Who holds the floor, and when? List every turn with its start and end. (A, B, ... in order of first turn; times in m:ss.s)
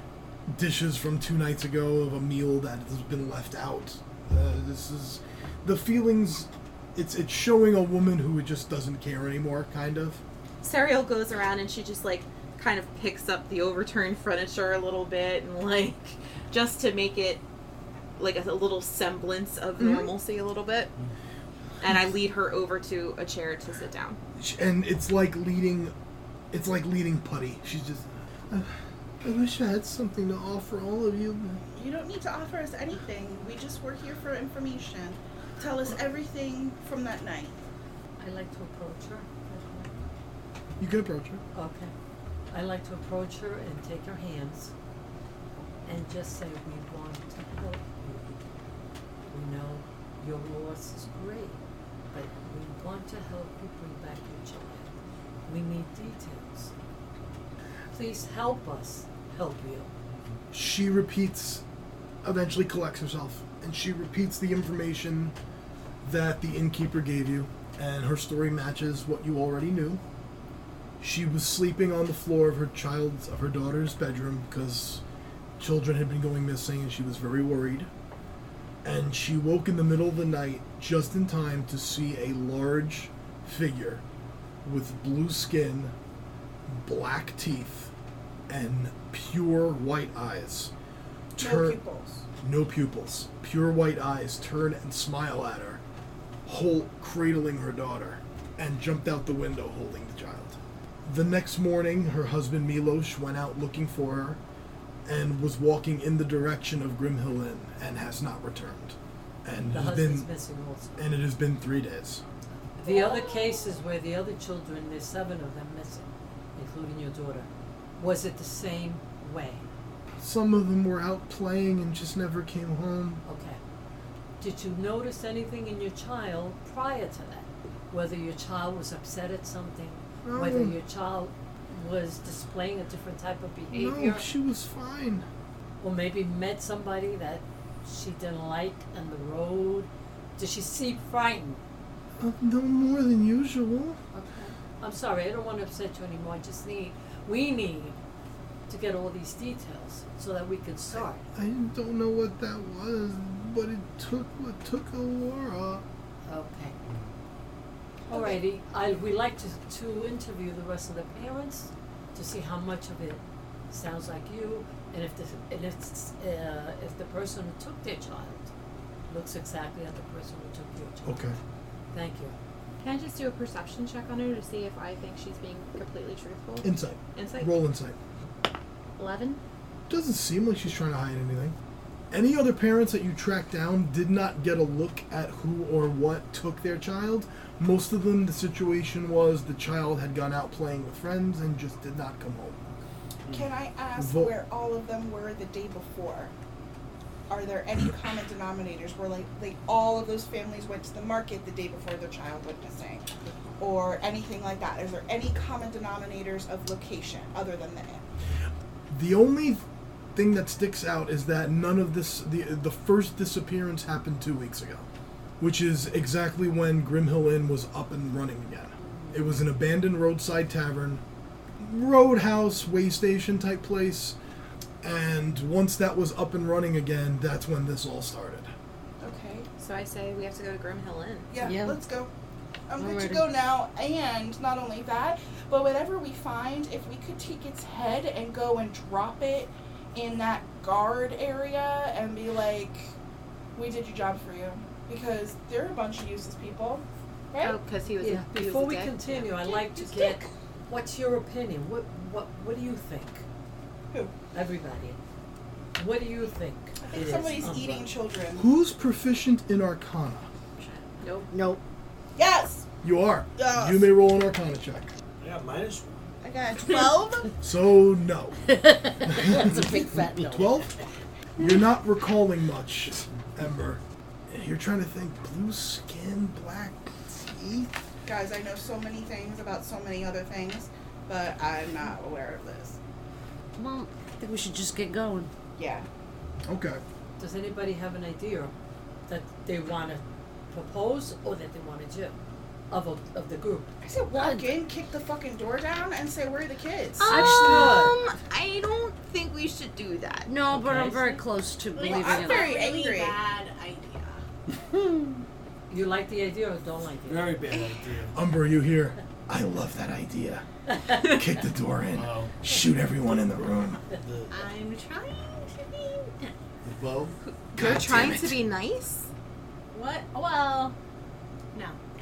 0:00.5-0:10.2 A
0:10.6-0:17.4 B
0:18.2-0:20.9 B
0:19.8-0:20.1 A
0:21.8-0:24.2 B
0:24.4-0:25.9 A
0:26.5-0:31.6 A
0:31.7-0:37.6 C
0:38.2-0:40.0 D
0:40.8-0:41.4 A
0:41.5-0:41.9 D
0:42.5-0:44.7 D
0:45.8-0:48.6 D
0:49.3-0:51.6 D
0:52.1-0:54.9 D
0:55.4-0:56.7 D
0:57.9-0:59.9 D
1:00.5-1:01.6 A
1:02.2-1:05.3 A
1:06.0-1:10.0 A
1:11.0-1:15.0 A
1:15.6-1:17.9 A
1:18.8-1:24.0 A
1:24.6-1:25.9 A
1:26.7-1:27.9 A
1:28.5-1:30.7 A
1:31.3-1:31.8 A
1:31.4-1:32.2 C
1:32.4-1:35.8 A
1:36.4-1:44.4 A
1:45.0-1:50.3 A
1:49.7-1:51.2 D
1:51.0-1:52.2 A
1:52.8-1:59.7 D
2:00.2-2:03.2 A
2:03.2-2:03.6 D
2:04.4-2:14.3 D
2:10.2-2:10.8 A
2:13.7-2:15.2 A
2:15.8-2:21.6 D
2:22.2-2:24.0 A
2:24.1-2:24.5 E
2:24.8-2:28.0 D
2:28.7-2:31.2 D
2:30.9-2:35.8 A
2:36.2-2:36.8 D
2:36.8-2:37.1 F
2:38.1-2:38.4 C
2:38.1-2:48.5 D
2:49.1-2:51.3 D
2:51.0-2:51.4 A
2:51.9-2:52.4 D
2:52.8-2:57.5 B
2:56.6-2:58.0 A
2:59.0-2:59.4 B
2:59.9-3:01.5 A
3:02.1-3:12.8 A
3:13.3-3:16.3 C
3:14.0-3:14.3 A
3:17.3-3:23.0 C
3:23.6-3:28.0 C
3:28.9-3:29.6 A
3:30.1-3:34.9 A
3:35.4-3:41.0 A
3:38.8-3:39.1 E
3:41.6-3:44.2 A
3:44.8-3:48.5 A
3:49.0-3:49.5 C
3:49.6-3:51.3 B
3:51.3-3:52.1 C
3:51.4-3:51.8 G
3:52.7-4:02.9 C
3:52.8-3:53.3 G
4:03.5-4:07.6 C
4:07.4-4:09.3 B
4:08.0-4:13.2 D
4:09.4-4:10.3 C
4:14.3-4:15.0 D
4:15.7-4:17.9 D
4:16.8-4:18.5 C
4:18.4-4:20.3 A
4:20.6-4:21.1 E
4:21.0-4:21.3 B
4:21.3-4:21.6 G
4:22.2-4:22.6 C
4:22.8-4:24.9 A
4:23.4-4:23.9 C
4:25.2-4:26.2 F
4:26.2-4:27.3 C
4:27.4-4:28.4 A
4:28.5-4:30.6 G
4:29.1-4:30.7 A
4:31.4-4:37.7 A
4:38.0-4:42.8 C
4:43.6-4:45.3 G
4:45.6-4:45.9 C
4:46.4-4:46.8 A
4:47.2-4:48.5 D
4:49.1-4:52.2 D
4:52.7-4:53.7 D
4:53.8-4:57.1 C
4:54.1-4:54.6 G
4:57.0-5:00.3 B
4:57.1-4:58.0 D
4:57.3-4:57.6 G
5:00.3-5:02.5 G
5:00.5-5:01.2 D
5:01.7-5:04.2 E
5:01.8-5:03.2 C
5:05.7-5:07.4 D
5:07.1-5:08.2 F
5:07.5-5:07.8 B
5:08.1-5:13.8 A
5:11.9-5:12.3 F
5:13.9-5:14.5 F
5:14.3-5:16.3 E
5:16.6-5:17.2 F
5:17.2-5:19.1 B
5:17.5-5:18.4 A
5:19.7-5:20.7 E